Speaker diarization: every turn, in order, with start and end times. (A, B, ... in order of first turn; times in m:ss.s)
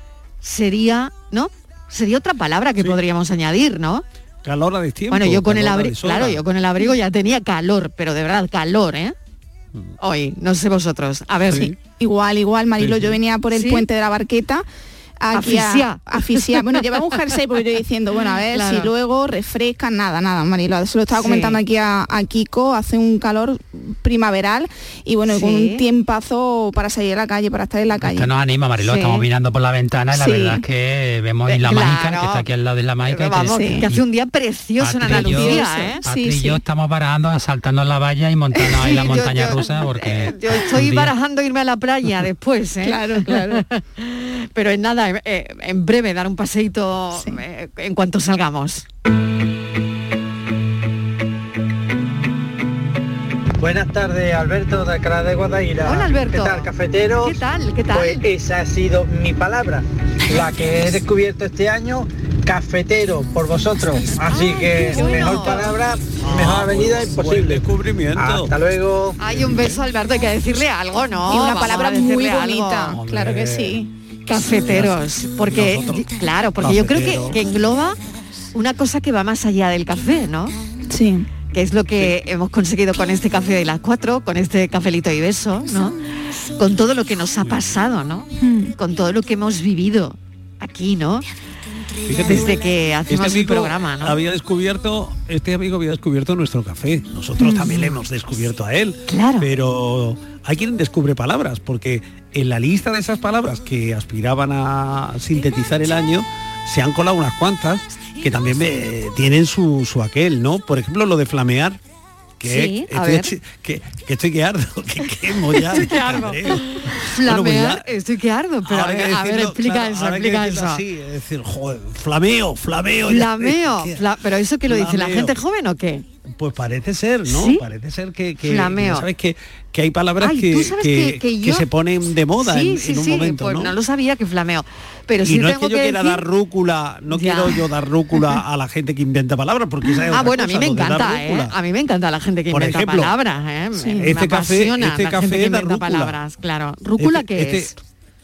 0:00.4-0:04.0 A
0:04.4-0:06.4 B
0:05.1-0:09.1 A
0:10.0-0:11.7 A
0:11.5-0:14.6 C
0:12.8-0:13.1 B
0:13.5-0:13.8 A
0:15.2-0:28.3 C
0:15.3-0:16.8 A
0:18.5-0:18.9 A
0:21.2-0:21.6 A
0:25.3-0:25.8 A
0:28.0-0:34.0 D
0:28.8-0:29.2 A
0:30.1-0:30.6 C
0:31.5-0:32.5 A
0:33.0-0:36.0 A
0:33.5-0:33.8 C
0:34.8-0:41.1 D
0:35.0-0:36.6 C
0:38.6-0:39.2 C
0:38.8-0:48.8 A
0:42.8-0:43.6 C
0:47.1-0:47.4 C
0:53.6-1:09.2 E
0:55.8-0:58.2 A
1:04.7-1:05.7 A
1:04.9-1:05.5 C
1:06.2-1:08.5 B
1:09.2-1:13.0 A
1:11.3-1:13.9 C
1:12.9-1:16.0 B
1:14.3-1:18.0 A
1:16.6-1:17.4 B
1:18.5-1:20.5 A
1:20.9-1:21.3 C
1:21.5-1:25.9 A
1:26.6-1:31.2 A
1:28.4-1:28.7 C
1:32.0-1:51.8 B
1:32.3-1:34.1 A
1:37.4-1:37.8 C
1:39.1-1:39.5 A
1:52.4-1:57.9 B
1:52.4-1:53.3 A
1:55.7-2:00.8 A
1:58.6-2:04.1 B
2:03.1-2:06.0 A
2:04.7-2:05.3 B
2:06.2-2:13.7 B
2:07.3-2:07.6 A
2:08.4-2:09.0 A
2:10.2-2:11.6 A
2:12.4-2:16.2 A
2:15.2-2:21.5 B
2:17.1-2:17.6 A
2:20.1-2:27.8 A
2:22.5-2:23.1 B
2:23.9-2:26.2 B
2:27.0-2:27.7 B